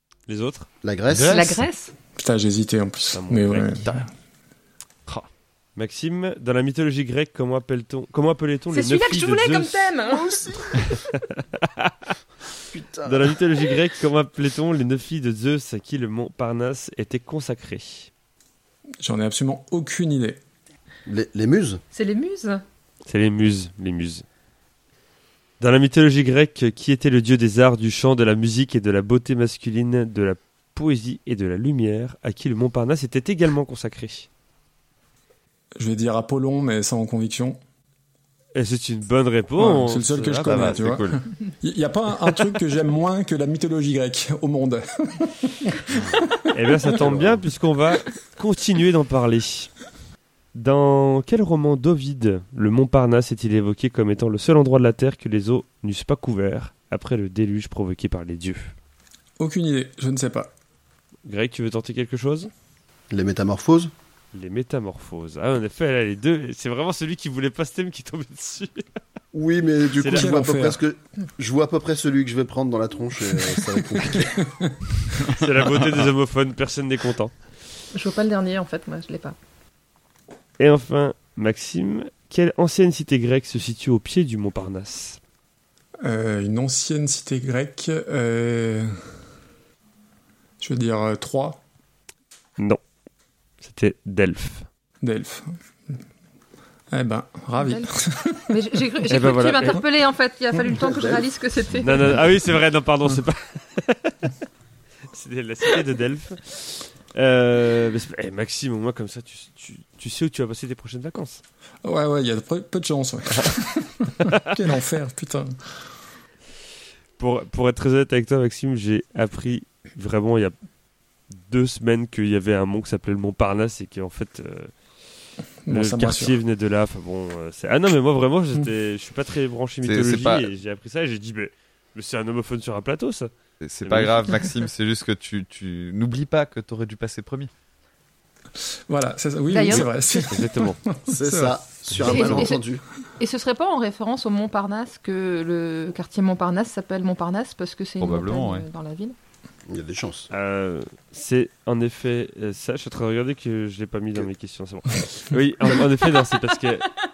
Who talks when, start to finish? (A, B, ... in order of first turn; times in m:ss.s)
0:00.3-0:00.7 A
0:00.8-0:01.5 B
0:01.1-0:01.6 C
0:01.3-0:01.9 D
0:02.1-0:04.1 E
0:03.1-0:04.0 A
0:05.8-0:09.9 A
0:08.7-0:10.3 D
0:10.1-0:11.0 B
0:10.9-0:12.1 A
0:12.7-0:13.4 B
0:13.0-0:18.1 A
0:19.0-0:20.4 E
0:21.0-0:21.8 B
0:21.9-0:22.6 D
0:23.0-0:24.2 A
0:25.6-0:34.3 A
0:35.8-0:37.6 E
0:38.5-0:40.8 A
0:39.6-0:46.1 E
0:40.4-0:41.2 C
0:45.9-0:46.2 B
0:46.5-0:49.7 A
0:47.0-0:47.4 B
0:50.5-0:58.7 A
0:59.4-1:00.5 E
1:01.2-1:02.5 A
1:03.1-1:03.9 B
1:04.3-1:08.8 A
1:09.3-1:14.4 B
1:10.0-1:10.3 A
1:10.0-1:10.8 E
1:13.3-1:14.8 E
1:15.2-1:17.3 A
1:17.9-1:19.3 D
1:20.6-1:25.2 A
1:26.0-1:29.0 E
1:30.6-1:31.6 E
1:33.6-1:34.7 A
1:35.0-1:36.0 E
1:36.9-1:38.8 E
1:37.6-1:37.9 D
1:38.5-1:42.1 D
1:39.1-1:39.8 A
1:40.7-1:41.2 B
1:41.8-1:44.3 A
1:45.1-1:51.4 A
1:51.8-1:55.8 E
1:57.2-2:00.5 A
2:01.3-2:04.7 A
2:05.6-2:06.4 E
2:05.7-2:13.3 A
2:09.8-2:10.5 C
2:13.6-2:17.5 C
2:13.8-2:14.3 A
2:18.6-2:22.5 E
2:19.5-2:20.2 D
2:20.3-2:20.8 A
2:21.1-2:22.8 B
2:22.0-2:22.6 D
2:23.2-2:29.1 D
2:28.0-2:28.6 C
2:29.7-2:30.3 B
2:30.3-2:36.9 A